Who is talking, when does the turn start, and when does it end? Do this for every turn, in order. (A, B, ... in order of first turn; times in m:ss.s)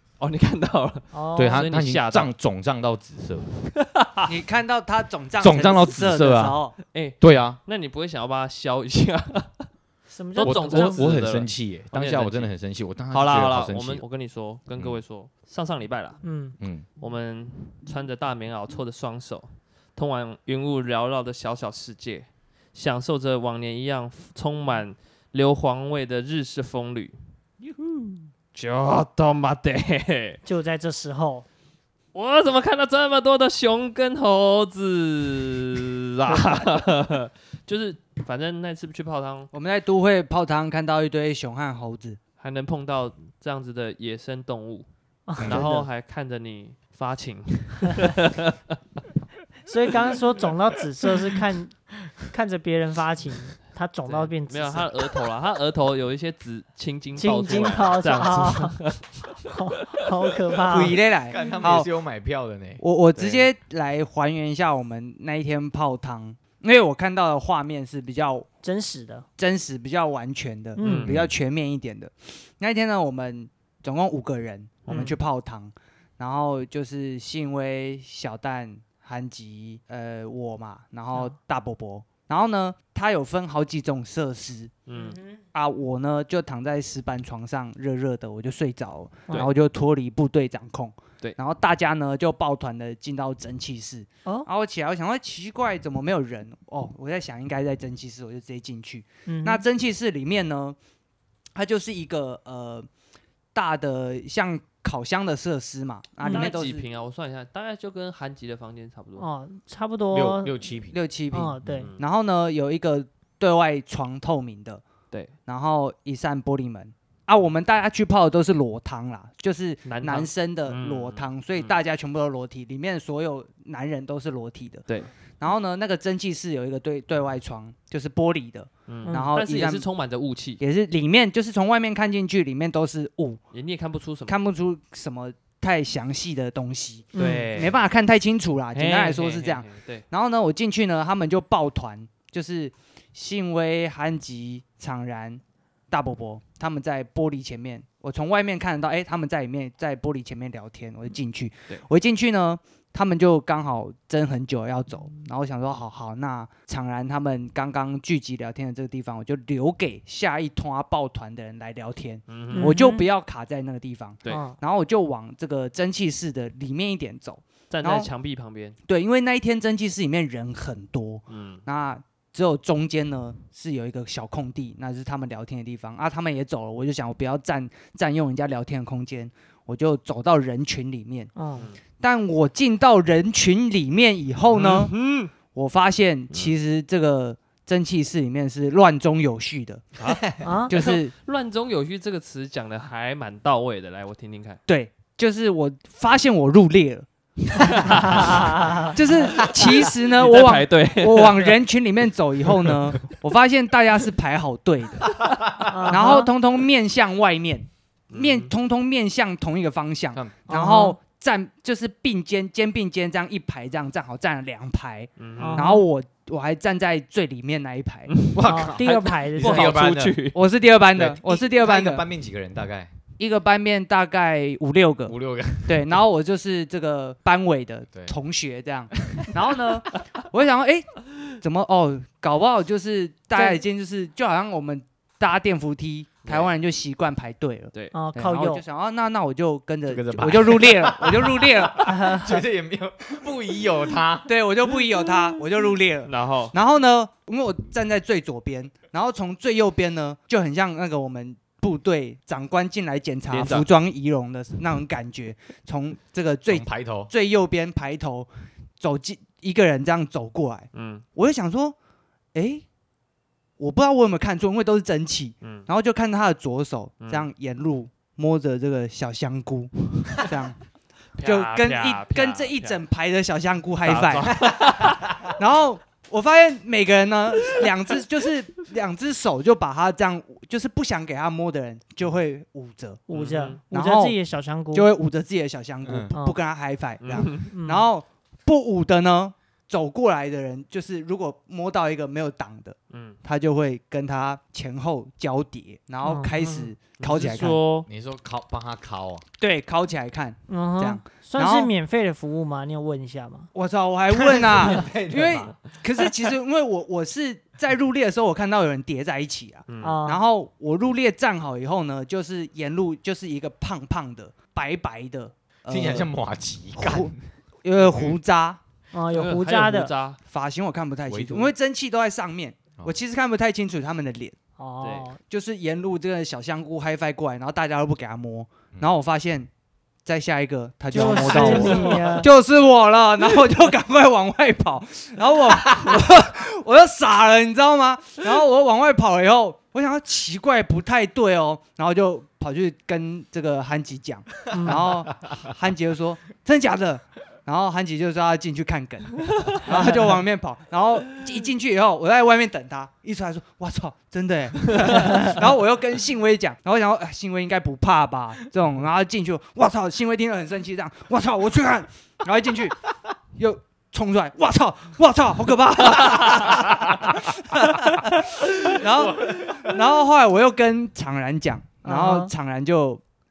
0:00.2-0:02.3 A
0:01.1-0:01.6 B
0:01.4-0:03.5 C
0:03.7-0:04.3 A
0:04.2-0:06.7 D
0:05.4-0:06.6 C
0:06.8-0:09.7 A
0:07.2-0:07.6 C
0:10.1-0:11.1 B
0:10.3-0:12.5 A
0:10.4-0:14.0 C
0:13.1-0:16.2 A
0:16.2-0:16.6 B
0:16.6-0:16.8 C
0:17.0-0:27.2 A
0:27.8-0:28.2 B
0:28.5-0:30.4 A
0:30.4-0:31.4 B
0:32.1-0:39.5 A
0:39.5-0:42.2 D
0:42.4-0:44.9 A
0:45.3-0:45.6 B
0:45.4-0:45.6 C
0:45.4-0:48.6 A
0:45.5-0:45.8 D
0:49.6-0:51.7 B
0:52.3-0:54.9 B
0:54.0-0:59.1 A
0:57.2-0:58.8 B
0:59.5-1:01.0 B
1:00.6-1:01.9 D
1:01.3-1:02.8 C
1:02.8-1:08.5 D
1:03.1-1:03.5 A
1:08.6-1:09.2 B
1:09.4-1:24.7 D
1:10.8-1:11.1 B
1:10.8-1:11.2 A
1:14.8-1:15.2 A
1:24.8-1:25.2 A
1:24.9-1:25.4 B
1:25.5-1:40.8 D
1:39.3-1:39.6 B
1:41.5-1:42.9 D
1:43.5-1:46.8 D
1:46.2-1:46.5 B
1:46.3-1:49.3 A
1:49.2-1:50.6 B
1:50.1-1:51.0 C
1:50.9-1:54.8 D
1:51.3-1:51.9 B
1:51.6-1:51.9 C
1:51.8-1:52.1 A
1:55.5-2:04.8 D
1:59.8-2:01.8 A
2:05.4-2:09.8 D
2:08.9-2:10.6 A
2:09.0-2:09.3 B
2:10.6-2:13.4 D
2:13.5-2:14.4 A
2:14.3-2:48.1 D
2:17.1-2:17.8 A
2:17.1-2:17.5 B
2:18.7-2:20.0 A
2:42.3-2:42.8 A
2:42.5-2:43.1 B
2:44.3-2:44.6 B
2:47.7-2:48.8 A
2:48.9-3:01.3 D
2:51.3-2:51.6 A
3:01.4-3:01.7 B
3:02.0-3:04.9 D
3:04.5-3:05.3 A
3:05.5-3:09.9 D
3:06.3-3:06.6 A
3:10.0-3:14.6 A
3:10.1-3:10.4 C
3:10.4-3:10.7 B
3:10.7-3:11.1 D
3:14.7-3:38.1 D
3:18.1-3:18.9 B
3:19.0-3:21.6 A
3:25.6-3:26.3 B
3:28.1-3:28.5 A
3:30.5-3:31.0 B
3:35.2-3:35.7 A
3:35.4-3:35.9 B
3:38.1-3:40.4 A
3:38.3-3:40.2 C
3:38.4-3:39.6 B
3:40.3-3:42.0 D
3:40.9-3:42.9 C
3:43.2-3:45.1 D
3:45.0-3:46.0 C
3:45.6-4:01.9 D
3:49.0-3:49.4 C
3:56.2-3:56.5 A
3:57.9-3:58.6 B
3:59.9-4:04.3 C
4:01.8-4:02.4 B
4:04.2-4:18.3 D
4:06.0-4:06.5 A
4:13.3-4:13.7 A
4:16.5-4:17.1 C
4:18.8-4:21.7 D
4:20.7-4:21.0 A
4:22.3-4:22.6 D
4:23.6-4:30.6 D
4:25.4-4:25.7 A
4:27.0-4:27.3 A
4:31.2-4:32.8 A
4:31.2-4:34.3 D
4:33.8-4:35.3 A
4:34.4-4:35.3 C
4:35.3-4:43.0 D
4:43.1-4:44.9 B
4:43.1-4:43.6 A
4:43.7-4:44.2 D
4:44.7-4:57.6 D
4:45.8-4:46.1 C
4:47.0-4:47.5 A
4:47.3-4:47.9 B
4:52.9-4:53.2 A
4:56.0-4:56.6 B
4:56.4-4:57.9 A
4:57.8-4:59.2 C
4:59.4-5:01.7 D
5:00.5-5:03.5 B
5:03.5-5:16.1 D
5:04.1-5:05.5 C
5:09.7-5:10.0 A
5:09.8-5:10.2 B
5:15.7-5:17.2 C
5:16.8-5:17.1 D
5:17.6-5:18.6 D
5:17.8-5:18.1 C
5:18.9-5:19.9 B
5:19.1-5:20.2 A
5:20.2-5:24.4 D
5:21.1-5:21.5 C
5:24.6-5:25.2 B
5:24.8-5:25.1 A
5:25.2-5:29.5 D
5:30.0-6:02.8 D
5:30.9-5:32.3 B
5:31.0-5:32.0 A
5:31.4-5:31.7 C
5:44.5-5:44.8 B
6:03.3-6:13.0 D
6:09.0-6:09.7 C
6:11.8-6:12.3 B